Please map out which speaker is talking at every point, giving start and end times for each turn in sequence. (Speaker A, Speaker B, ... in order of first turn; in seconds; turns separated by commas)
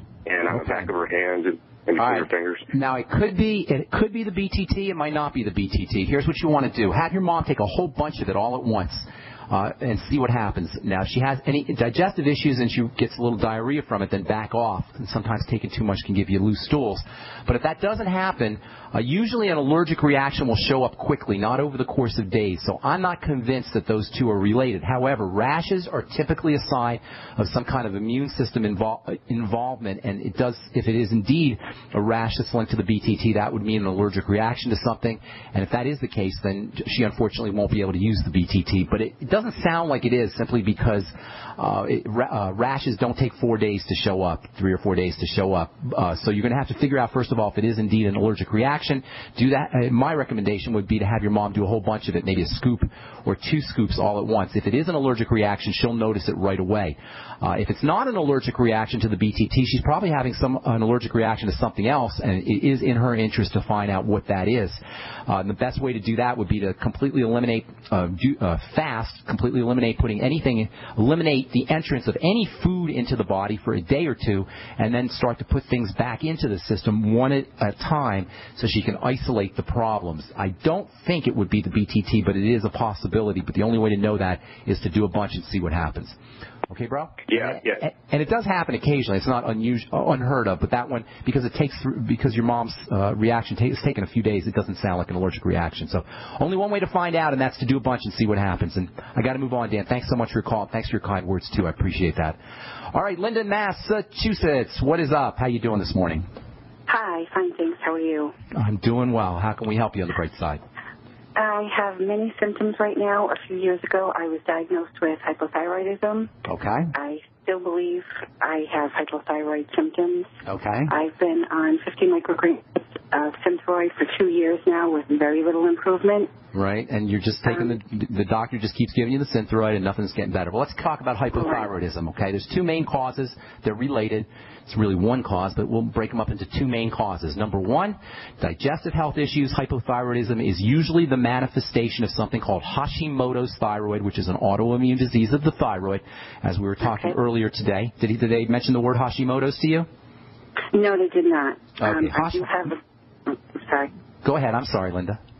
Speaker A: 0.2-2.6, Speaker B: 0.5-0.9, Speaker B: 2.0-86.2, Speaker B: 86.7-102.4, Speaker A: 87.3-87.8, Speaker B: 102.9-106.2, Speaker C: 106.9-108.3, Speaker B: 108.5-110.6, Speaker C: 111.3-116.3, Speaker B: 116.5-116.9, Speaker C: 116.9-120.3, Speaker B: 120.5-120.9, Speaker C: 120.9-126.3, Speaker B: 126.5-149.9, Speaker C: 131.3-131.6, Speaker C: 146.8-147.1, Speaker C: 150.7-153.9, Speaker B: 151.8-152.5, Speaker B: 154.2-155.2